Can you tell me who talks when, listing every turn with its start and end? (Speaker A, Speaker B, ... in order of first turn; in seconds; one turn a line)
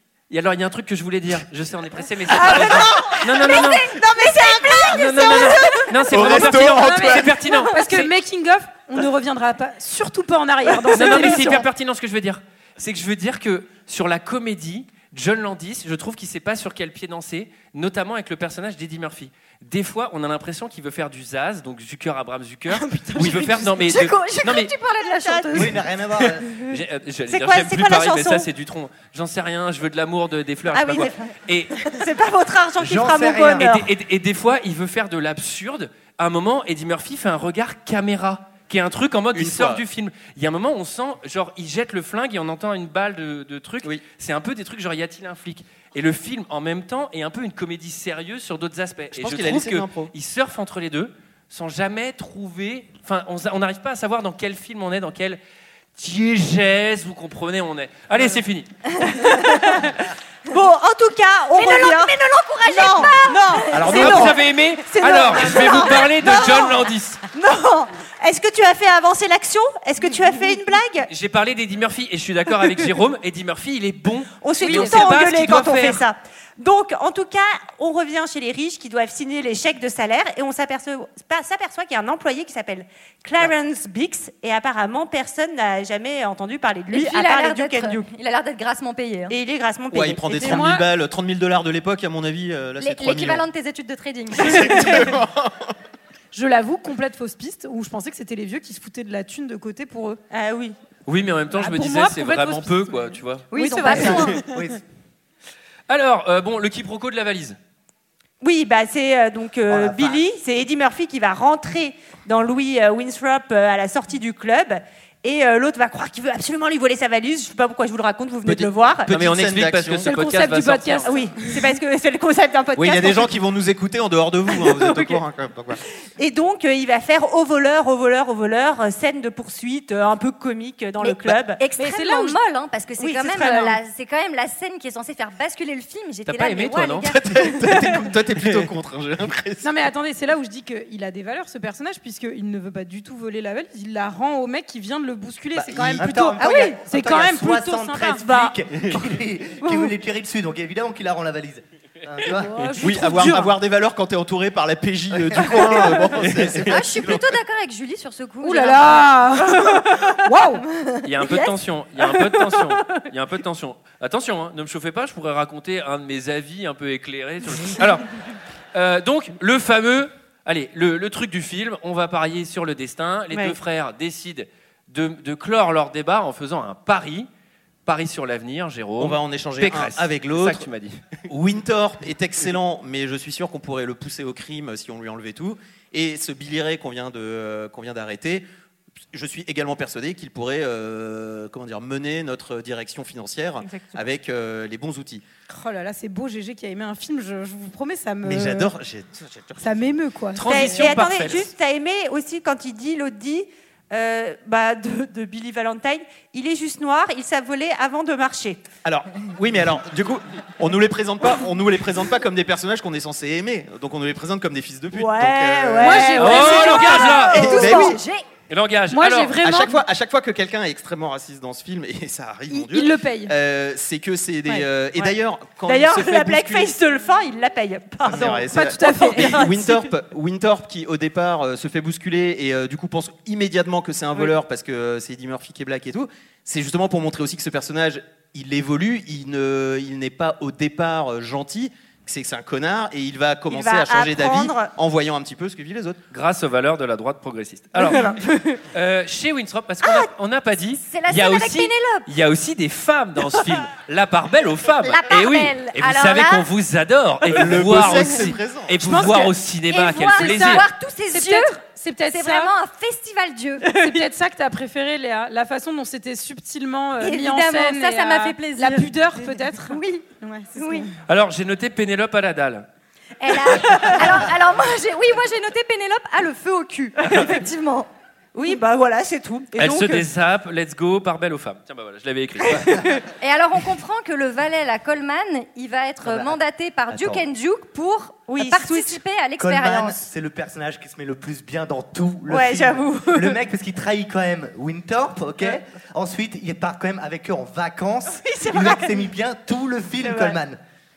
Speaker A: 0.3-4.0
Speaker B: 2.4-3.2
Speaker C: 2.4-6.3
Speaker B: 4.0-5.6
Speaker A: 4.8-8.1
Speaker D: 6.1-7.4
Speaker E: 6.3-11.7
Speaker A: 10.9-24.7
Speaker E: 22.7-23.7
Speaker C: 23.8-25.8
Speaker B: 25.3-25.6
Speaker F: 25.5-26.4
Speaker A: 26.2-31.8
Speaker B: 27.3-28.5
Speaker B: 30.7-31.2
Speaker B: 31.9-33.9
Speaker F: 32.8-33.7
Speaker A: 33.5-55.4
Speaker D: 39.3-39.8
Speaker D: 49.1-50.1
Speaker A: 56.0-58.7
Speaker B: 59.0-71.1
Speaker C: 61.5-64.3
Speaker A: 63.7-67.2
Speaker D: 63.8-64.1
Speaker C: 65.7-66.0
Speaker A: 71.1-76.0
Speaker B: 74.4-88.1
Speaker C: 86.9-89.3
Speaker B: 89.3-90.7
Speaker D: 89.9-93.4
Speaker E: 90.4-90.8
Speaker C: 92.8-95.1
Speaker D: 94.3-95.7
Speaker E: 96.3-100.2
Speaker B: 100.3-100.8
Speaker A: 101.1-103.5
Speaker E: 101.5-104.5
Speaker C: 103.5-104.4
Speaker F: 103.9-104.8
Speaker A: 105.9-107.6
Speaker B: 108.4-119.1
Speaker F: 109.7-110.2
Speaker D: 118.5-120.1
Speaker A: 119.1-121.2
Speaker E: 120.0-121.6
Speaker B: 121.0-123.4
Speaker D: 122.8-125.8
Speaker B: 124.5-125.2
Speaker B: 126.2-131.6
Speaker C: 131.6-137.8
Speaker E: 131.8-132.4
Speaker B: 133.0-133.8
Speaker A: 136.3-137.1
Speaker D: 137.1-139.8
Speaker E: 139.6-148.2
Speaker D: 145.6-146.3
Speaker F: 145.9-152.8
Speaker B: 146.4-146.8
Speaker B: 148.2-148.6
Speaker B: 149.6-149.9
Speaker E: 152.3-153.5
Speaker D: 152.8-157.3
Speaker F: 155.1-156.7
Speaker C: 156.6-159.1
Speaker E: 158.4-160.6
Speaker B: 159.6-160.2
Speaker C: 160.8-161.5
Speaker A: 161.1-168.2
Speaker A: 168.7-177.3
Speaker A: 177.9-181.2
Speaker D: 179.0-180.7
Speaker D: 181.3-188.4
Speaker D: 189.1-195.2
Speaker B: 193.6-194.0
Speaker E: 195.5-198.8
Speaker D: 198.2-199.8
Speaker E: 199.6-200.9
Speaker A: 200.3-201.5
Speaker B: 200.4-208.6
Speaker D: 208.8-218.0
Speaker B: 214.9-217.8
Speaker E: 215.8-217.8
Speaker A: 216.2-217.8
Speaker C: 216.5-218.3
Speaker A: 218.5-219.4
Speaker E: 218.9-219.8
Speaker D: 219.4-226.7
Speaker E: 222.5-223.3
Speaker B: 224.5-225.1
Speaker B: 225.7-229.9
Speaker D: 228.1-246.0
Speaker E: 228.2-229.5
Speaker B: 243.5-244.7
Speaker A: 246.1-248.2
Speaker B: 247.8-248.6
Speaker A: 248.7-260.6
Speaker B: 249.8-250.1
Speaker C: 250.8-252.1
Speaker C: 254.8-256.5
Speaker D: 257.3-259.1
Speaker E: 258.8-259.4
Speaker C: 259.7-263.6
Speaker E: 260.1-262.5
Speaker B: 263.7-264.0
Speaker E: 263.7-270.9
Speaker C: 267.0-270.9
Speaker A: 271.1-272.6
Speaker C: 273.2-277.9
Speaker B: 273.4-274.0
Speaker B: 277.1-277.3
Speaker B: 278.4-280.1
Speaker A: 279.6-282.9
Speaker B: 282.6-283.0
Speaker C: 283.2-290.0
Speaker F: 286.0-286.4
Speaker F: 286.9-287.2
Speaker B: 288.3-289.0
Speaker F: 289.4-300.6
Speaker B: 292.3-293.4
Speaker B: 298.2-299.0
Speaker B: 300.0-300.4